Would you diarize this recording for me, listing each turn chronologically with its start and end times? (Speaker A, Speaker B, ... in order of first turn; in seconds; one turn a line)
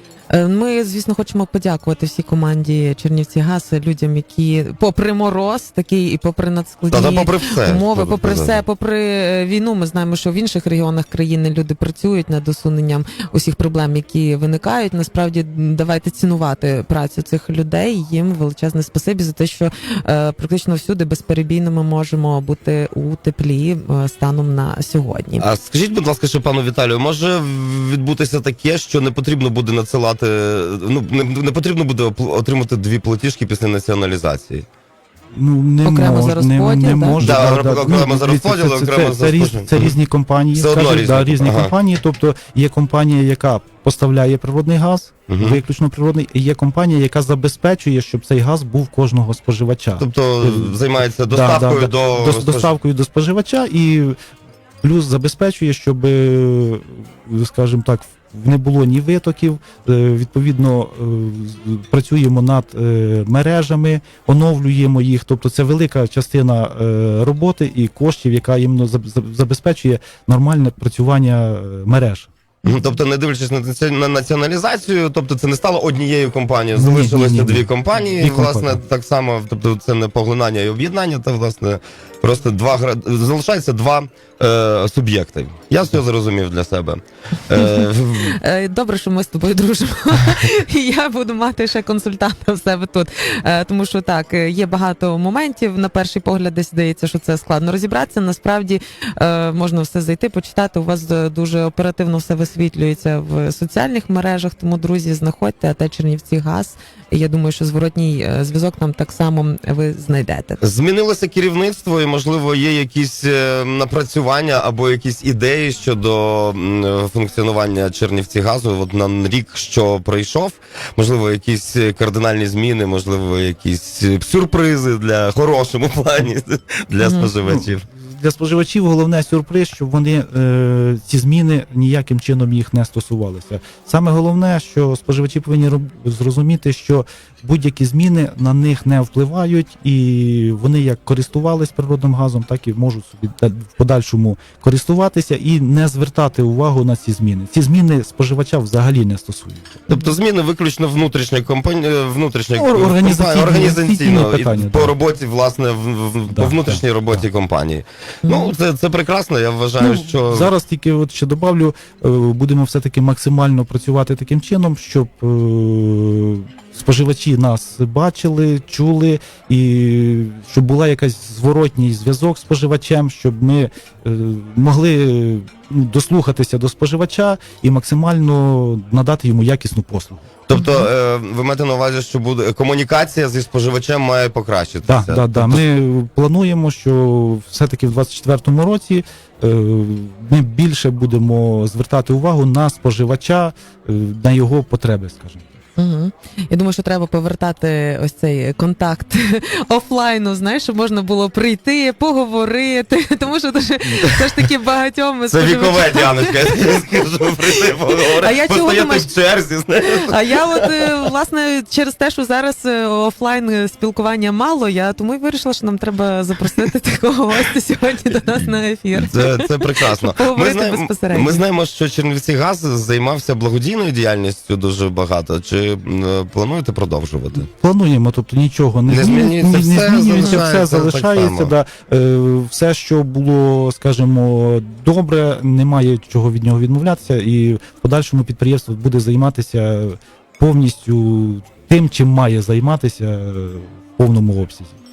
Speaker A: 0.3-25.4
Speaker B: 6.9-8.6
Speaker B: 25.4-34.6
Speaker C: 35.4-54.2
Speaker A: 35.9-37.2
Speaker B: 37.2-40.0
Speaker B: 40.5-41.7
Speaker B: 45.3-45.6
Speaker B: 50.0-52.7
Speaker C: 54.8-72.3
Speaker B: 72.7-88.4
Speaker C: 76.8-78.8
Speaker A: 87.5-110.6
Speaker B: 110.6-127.8
Speaker A: 127.0-127.3
Speaker C: 127.5-149.9
Speaker B: 149.9-160.5
Speaker C: 152.6-154.9
Speaker C: 156.3-157.2
Speaker A: 158.2-158.5
Speaker C: 159.8-180.2
Speaker B: 180.5-185.6
Speaker A: 180.5-180.9
Speaker C: 184.8-195.6
Speaker A: 195.8-209.1
Speaker B: 205.3-211.0
Speaker A: 210.1-221.4
Speaker B: 218.9-227.5
Speaker C: 227.4-244.8
Speaker B: 228.9-231.5